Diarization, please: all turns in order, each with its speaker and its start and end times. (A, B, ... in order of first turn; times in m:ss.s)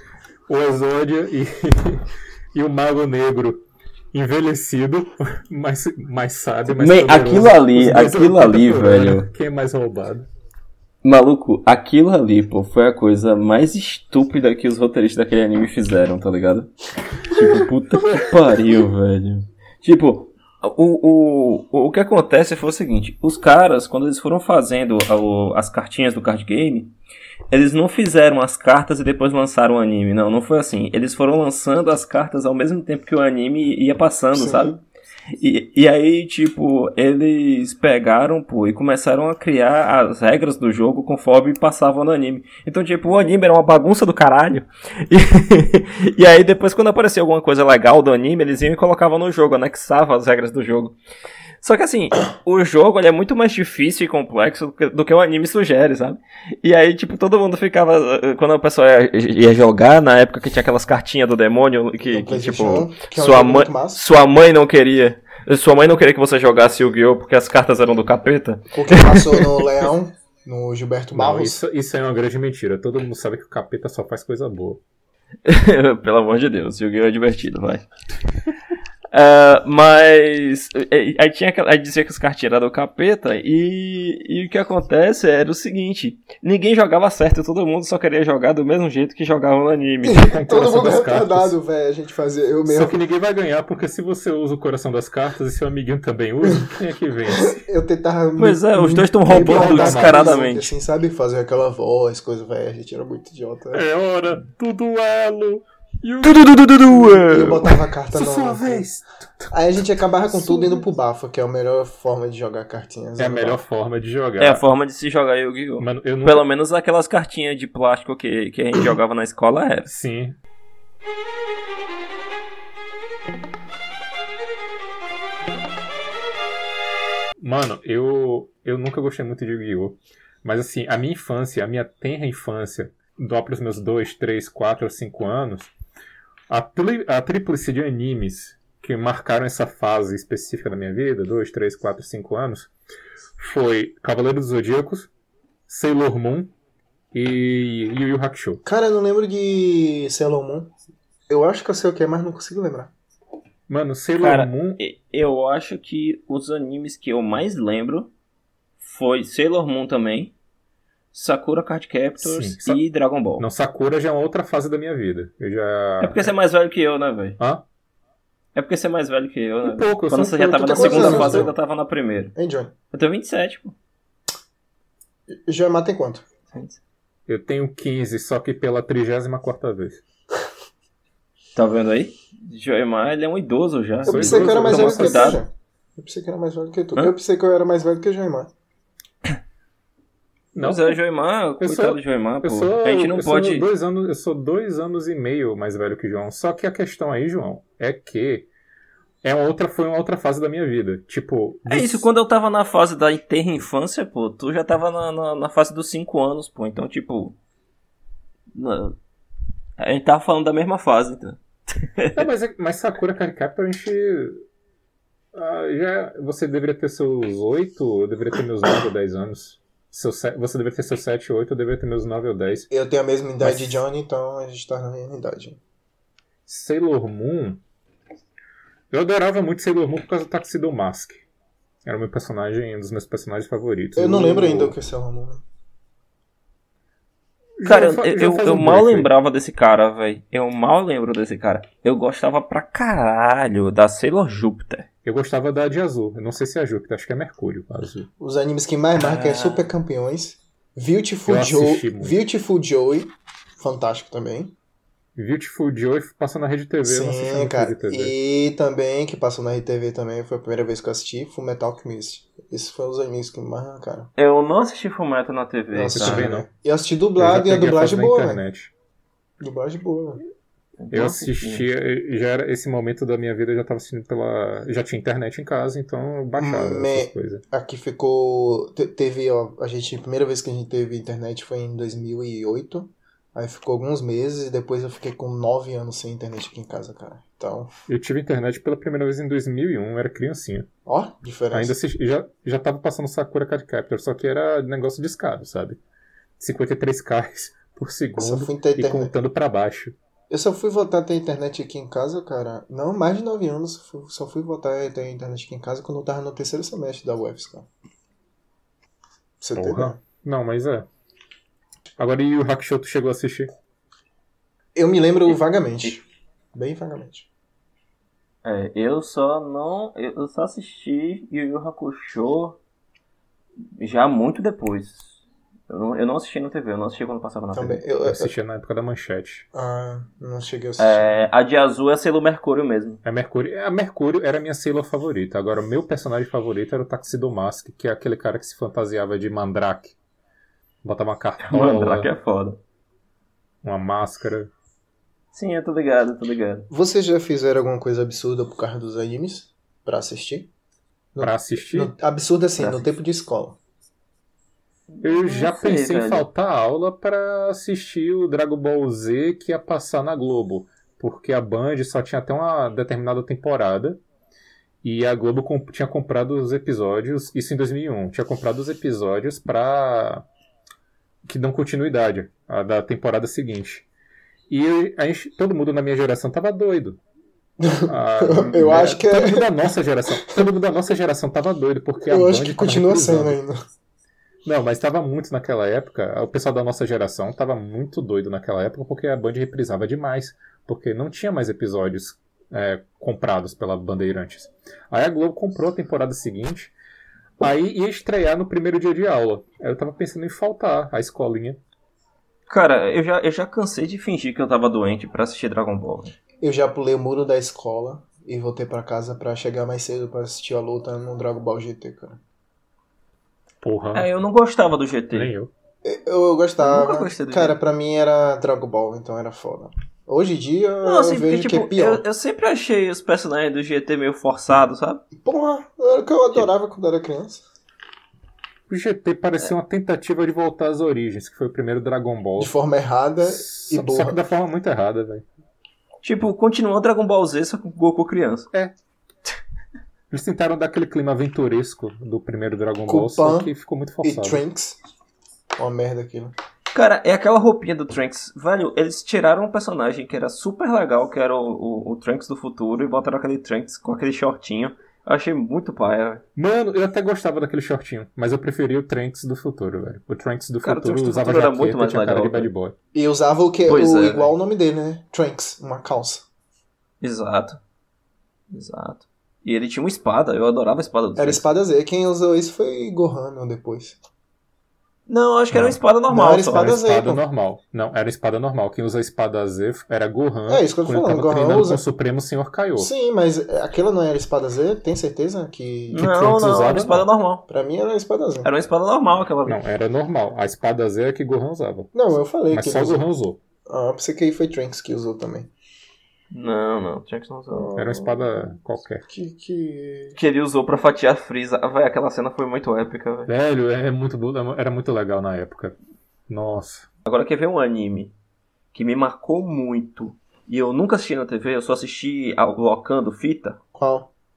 0:00.5-0:10.3 A
0:06.8-0:09.3 B
0:11.0-0:26.9 B
0:27.5-0:34.8 B
0:34.3-0:34.8 C
0:35.4-0:51.0 B
0:51.6-1:09.7 B
1:02.0-1:04.0 C
1:08.7-1:11.6 C
1:11.1-1:14.8 A
1:15.4-1:17.8 B
1:19.1-1:30.3 B
1:30.0-1:33.0 C
1:30.2-1:31.5 A
1:32.6-1:37.6 A
1:37.3-1:43.8 C
1:38.4-1:40.7 B
1:39.3-1:40.5 A
1:43.7-1:46.5 A
1:46.2-1:47.8 B
1:46.9-1:48.9 C
1:48.1-1:50.8 A
1:49.5-1:53.6 C
1:53.2-1:54.6 A
1:54.4-1:59.9 B
1:55.8-1:56.5 A
1:59.9-2:00.4 A
2:07.4-2:15.7 A
2:16.5-2:22.7 A
2:23.4-2:25.1 A
2:25.7-2:26.5 A
2:27.1-2:28.6 A
2:28.6-2:30.7 C
2:31.3-2:32.9 C
2:33.7-2:34.8 A
2:34.2-2:38.1 B
2:38.8-2:40.4 B
2:41.1-2:43.5 B
2:42.2-2:42.8 A
2:43.4-2:46.3 A
2:46.0-2:47.4 B
2:47.4-2:47.6 A
2:48.5-2:52.3 B
2:49.6-2:51.5 A
2:50.6-2:51.5 C
2:52.4-2:52.7 C
2:52.9-2:53.8 B
2:55.3-2:56.2 C
2:56.5-2:56.8 B
2:57.3-3:00.0 A
3:01.5-3:05.4 B
3:04.0-3:05.4 A
3:04.0-3:08.5 C
3:10.5-3:11.0 A
3:10.6-3:13.7 B
3:11.6-3:18.5 A
3:19.2-3:22.1 A
3:21.7-3:27.4 B
3:28.5-3:29.0 B
3:29.8-3:32.2 B
3:32.1-3:34.4 A
3:35.3-3:42.7 A
3:42.7-3:45.6 C
3:43.4-3:43.8 A
3:46.5-3:47.6 A
3:48.9-3:51.2 A
3:51.8-3:54.8 A
3:54.0-3:55.4 C
3:57.6-3:59.1 A
3:57.6-4:04.9 B
4:05.0-4:08.1 A
4:08.2-4:14.5 C
4:09.0-4:09.7 B
4:11.3-4:12.2 A
4:15.2-4:18.1 A
4:16.8-4:24.1 C
4:24.2-4:26.3 B
4:25.7-4:28.4 C
4:25.9-4:26.5 A
4:27.2-4:28.7 A
4:29.4-4:30.2 C
4:30.8-4:31.7 B
4:30.9-4:37.4 A
4:36.4-4:47.7 C
4:47.9-4:50.7 A
4:50.9-4:51.8 C
4:51.5-4:55.8 A
4:56.4-4:59.9 A
4:58.2-4:59.1 C
5:00.3-5:07.7 C
5:09.4-5:10.0 C
5:09.6-5:10.9 A
5:12.0-5:13.5 A
5:14.7-5:17.3 C
5:18.4-5:22.6 B
5:23.6-5:25.1 B
5:25.7-5:27.8 B
5:27.5-5:28.3 C
5:28.0-5:29.4 A
5:29.5-5:31.2 C
5:30.8-5:33.0 B
5:33.0-5:40.0 A
5:40.8-5:42.1 A
5:41.4-5:42.6 B
5:43.6-5:44.5 A
5:45.3-5:46.7 B
5:46.7-5:50.5 C
5:51.1-5:53.6 C
5:51.2-5:51.9 A
5:52.6-5:52.9 B
5:54.9-5:56.3 B
5:55.0-6:04.0 A
6:04.8-6:10.3 A
6:11.2-6:13.9 A
6:14.5-6:17.0 A
6:17.6-6:19.5 C
6:17.9-6:23.4 A
6:22.1-6:23.6 C
6:24.4-6:36.7 A
6:37.4-6:41.6 A
6:42.5-6:46.1 B
6:46.4-6:52.2 C
6:53.6-6:54.1 A
6:53.9-6:55.3 B
6:55.1-6:55.5 A
6:55.8-7:02.0 C
6:56.6-6:57.6 B
7:00.8-7:05.0 B
7:05.2-7:07.4 C
7:08.7-7:12.5 A
7:12.4-7:14.2 C
7:13.2-7:15.2 A
7:16.0-7:18.5 B
7:20.1-7:24.4 A
7:22.9-7:24.8 C
7:25.6-7:26.3 C
7:26.7-7:36.2 B
7:36.4-7:42.7 A
7:40.6-7:42.5 B
7:42.9-7:46.3 C
7:43.7-7:44.3 B
7:47.0-7:47.6 B
7:48.5-7:51.4 B
7:51.2-7:54.0 C
7:55.1-7:56.7 B
7:55.5-7:55.8 A
7:56.1-7:57.2 C
7:56.5-8:02.9 A
8:00.5-8:01.8 C
8:02.8-8:06.1 C
8:05.9-8:07.4 B
8:06.0-8:07.1 A
8:07.5-8:08.5 C
8:08.4-8:09.6 B
8:09.4-8:11.9 A
8:11.9-8:13.1 C
8:12.5-8:13.4 A
8:13.7-8:15.5 C
8:16.3-8:17.8 B
8:17.6-8:18.2 C
8:17.7-8:19.0 A
8:19.1-8:20.2 C
8:20.1-8:23.3 B
8:23.3-8:25.7 A
8:26.3-8:26.9 A
8:27.1-8:28.1 B
8:28.7-8:33.6 B
8:33.7-8:34.1 C